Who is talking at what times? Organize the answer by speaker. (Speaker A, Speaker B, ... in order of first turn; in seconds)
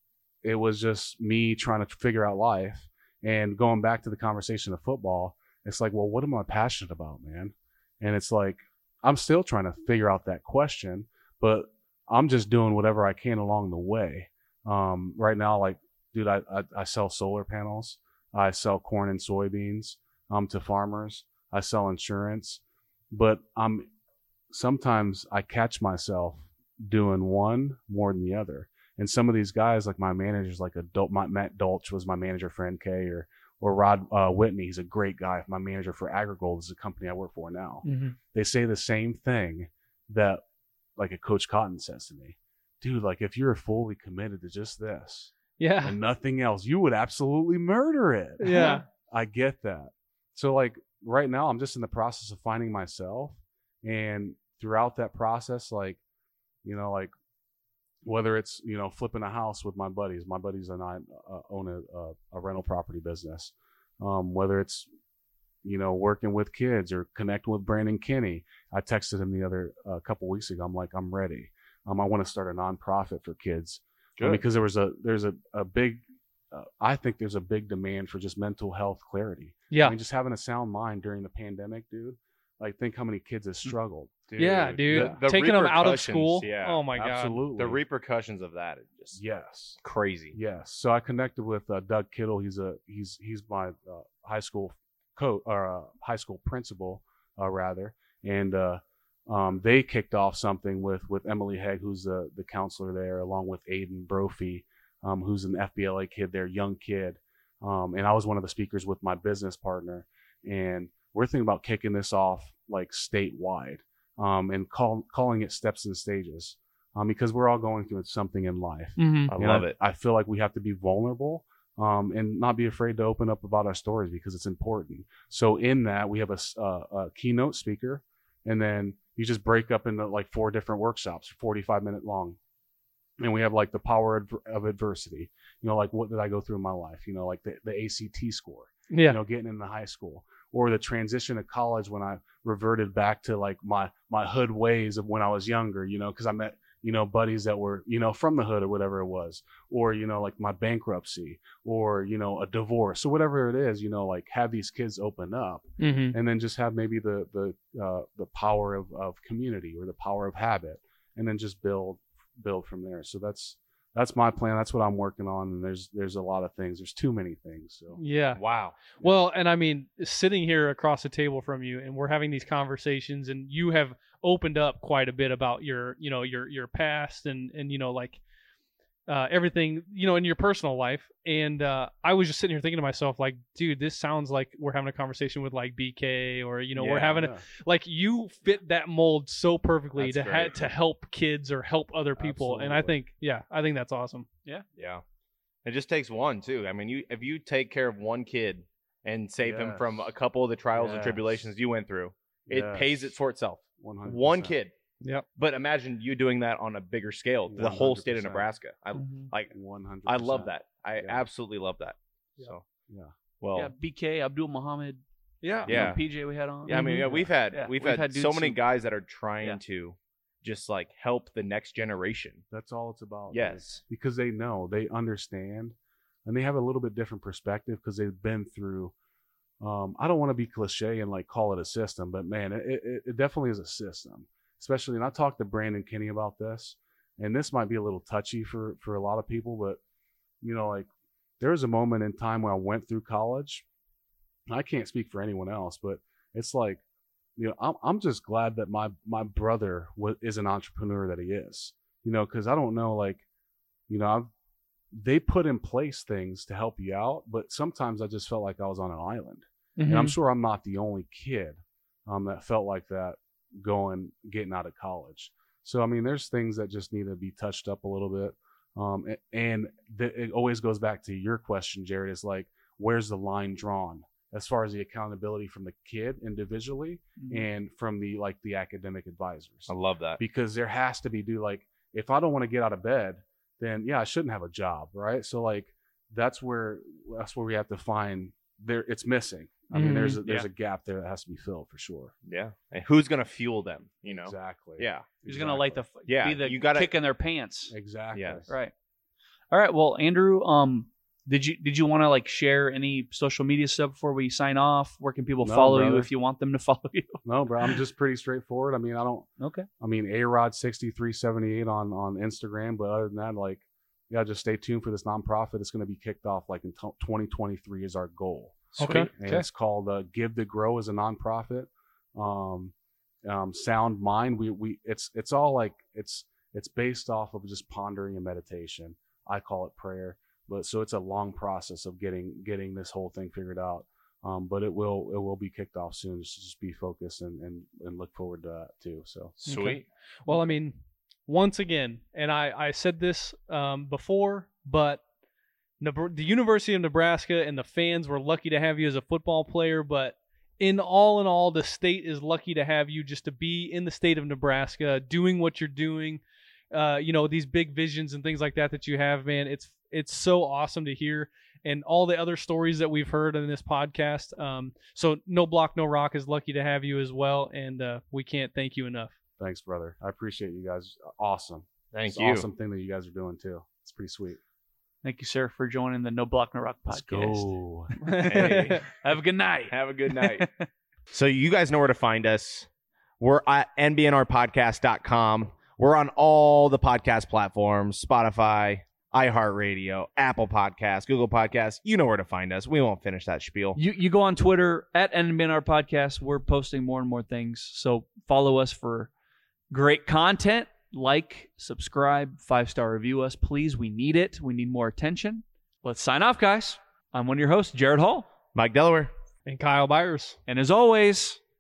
Speaker A: 0.4-23.9, 24.5-40.4, 41.0-56.0, 56.6-57.1, 58.0-64.9, 65.6-85.2, 86.9-87.8, 89.2-89.8, 90.3-132.4, 133.2-168.0, 187.0-187.4, 192.2-193.0, 199.4-200.1, 200.8-201.4, 202.5-203.2, 203.8-204.6, 207.5-208.5, 209.5-211.2, 217.0-217.3, 222.5-225.8, 226.3-228.9, 229.6-239.8, 240.4-240.9, 241.4-243.7, 244.5-246.8, 247.4-253.2, 253.9-254.3, 254.9-292.1, 294.2-295.8, 297.7-298.5, 305.4-306.1, 307.2-322.7, 323.2-339.4, 369.4-374.4, 376.9-377.9
Speaker B: 37.8-38.2, 45.6-46.0, 48.4-48.9, 79.7-80.0, 84.4-87.4, 119.0-119.3, 138.9-139.2, 155.8-156.2, 168.0-168.4, 169.0-178.2, 179.1-194.3, 208.9-209.3, 215.4-215.7, 216.7-217.1, 259.8-260.1, 289.7-290.2, 318.8-319.4, 339.4-340.8, 341.3-345.0, 345.8-369.1, 378.0-378.8, 409.5-410.4
Speaker C: 74.2-74.4, 84.3-86.8, 87.6-89.2, 89.8-90.4, 119.3-119.8, 168.4-168.9, 186.8-187.2, 190.0-190.7, 194.8-195.0, 195.7-204.7, 205.4-209.5, 210.1-212.6, 213.4-213.7, 215.7-216.0, 216.7-222.4, 223.3-223.8, 279.7-280.2, 292.3-295.1, 296.1-296.9, 298.1-298.5, 339.4-339.9, 371.9-372.4, 378.3-378.8, 379.7-380.5, 381.1-382.7, 383.2-393.8, 408.6-409.1
Speaker D: 213.5-215.0, 215.6-216.9, 217.5-218.6, 277.2-277.5, 295.3-297.7, 299.5-307.7, 309.4-309.7, 375.0-380.7, 393.8-399.1, 399.7-408.3, 410.5-411.4